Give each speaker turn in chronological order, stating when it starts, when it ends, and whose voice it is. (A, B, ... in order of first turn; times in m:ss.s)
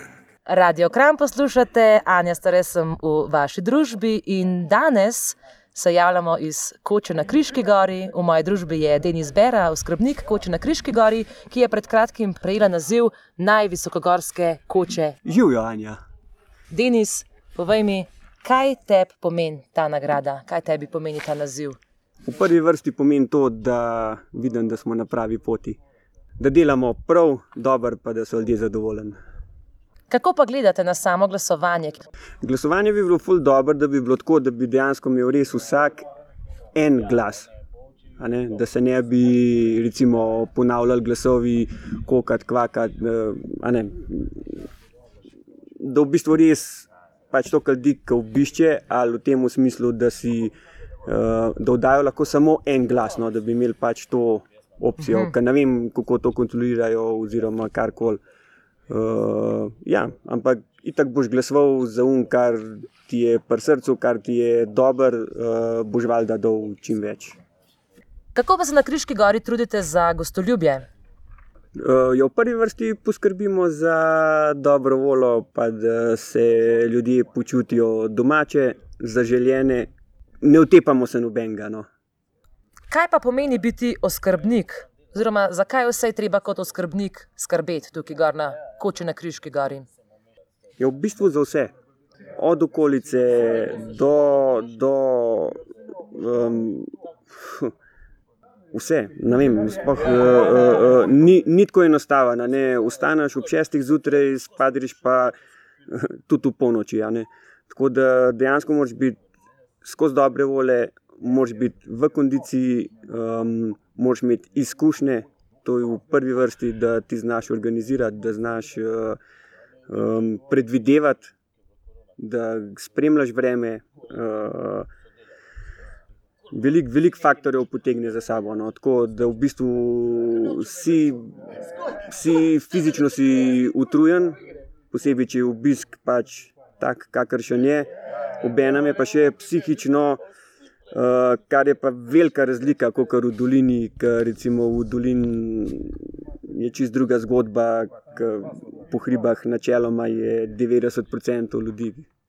0:00.4-0:15.2 A
0:15.2-0:16.0 B
0:16.7-0:21.8 A
0:22.2-0:25.8 B
0:26.4-0:29.2 B
0:30.1-0:32.0 A
0:32.4-0:36.0 B
0:36.7-0:37.5 B
0:38.2-0:44.6 B
0:45.8-0:58.2 B
0:55.0-0:55.3 A
0:58.9-1:07.4 B
1:08.3-1:10.9 A
1:11.7-1:19.9 B
1:20.4-1:21.9 B
1:22.9-1:29.9 A
1:30.8-1:31.7 B
1:32.4-1:35.6 B
1:36.1-1:37.7 B
1:38.7-1:45.3 B
1:45.9-1:49.2 B
1:49.8-1:59.2 B
1:59.9-2:01.3 B
2:02.2-2:04.9 B
2:06.5-2:11.3 B
2:12.1-2:14.4 B
2:14.9-2:20.2 B
2:20.9-2:32.1 B